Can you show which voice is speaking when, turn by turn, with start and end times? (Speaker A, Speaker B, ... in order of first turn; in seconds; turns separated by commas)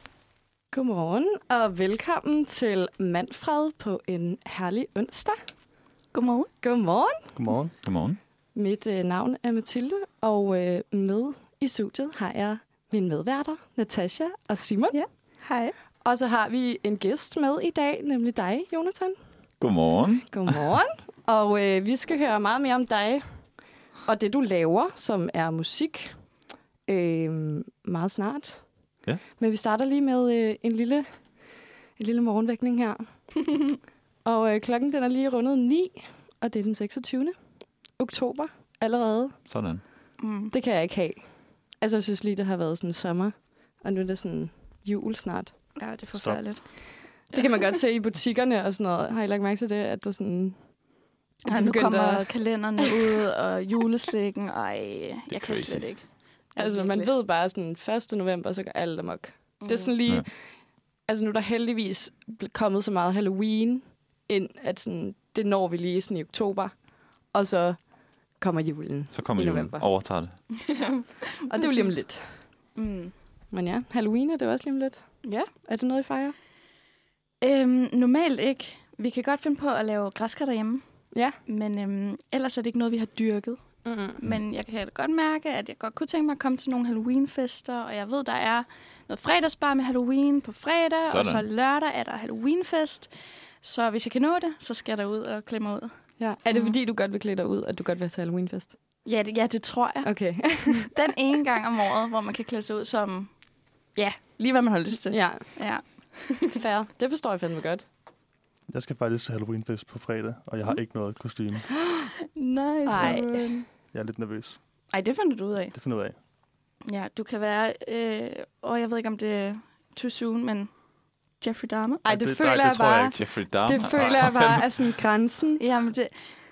Speaker A: 0.7-5.4, Speaker B: 6.1-6.5, Speaker A: 6.6-7.3, Speaker C: 7.3-7.7, Speaker D: 7.8-8.2, Speaker A: 8.6-15.0, Speaker B: 14.9-15.7, Speaker A: 16.0-19.2, Speaker D: 19.6-20.6, Speaker A: 20.3-23.2, Speaker A: 24.1-26.2, Speaker A: 26.9-28.6, Speaker A: 29.4-31.1, Speaker A: 32.0-33.1, Speaker A: 34.2-37.3, Speaker A: 38.0-39.4, Speaker D: 39.5-39.8, Speaker B: 40.2-40.5, Speaker A: 40.5-41.2, Speaker A: 41.8-45.5, Speaker B: 45.8-46.8, Speaker C: 46.2-46.4, Speaker A: 47.3-50.6, Speaker A: 51.5-52.3, Speaker B: 51.5-57.1, Speaker D: 55.3-55.9, Speaker A: 56.6-60.4, Speaker B: 59.6-59.9, Speaker A: 61.1-66.8, Speaker A: 67.3-67.8, Speaker A: 68.4-69.9, Speaker D: 69.1-70.4, Speaker B: 70.7-72.0, Speaker A: 71.5-72.2, Speaker B: 72.8-73.1, Speaker A: 73.5-76.3, Speaker B: 77.4-80.8, Speaker B: 81.5-83.6, Speaker A: 83.8-84.2, Speaker B: 84.2-93.1, Speaker D: 91.1-91.5, Speaker B: 93.6-95.9, Speaker A: 96.2-98.8, Speaker B: 96.5-96.8, Speaker B: 99.0-103.3, Speaker A: 100.0-100.9, Speaker B: 104.0-106.6, Speaker A: 105.1-105.5, Speaker A: 106.5-107.8, Speaker C: 108.7-111.7, Speaker A: 111.7-112.1, Speaker B: 112.3-113.7, Speaker A: 112.8-113.5, Speaker C: 113.9-114.6, Speaker B: 114.9-115.8, Speaker C: 115.7-116.2, Speaker B: 116.9-120.7, Speaker B: 121.4-122.0, Speaker A: 122.0-125.6, Speaker C: 122.1-123.1, Speaker D: 122.5-124.8, Speaker B: 125.6-126.1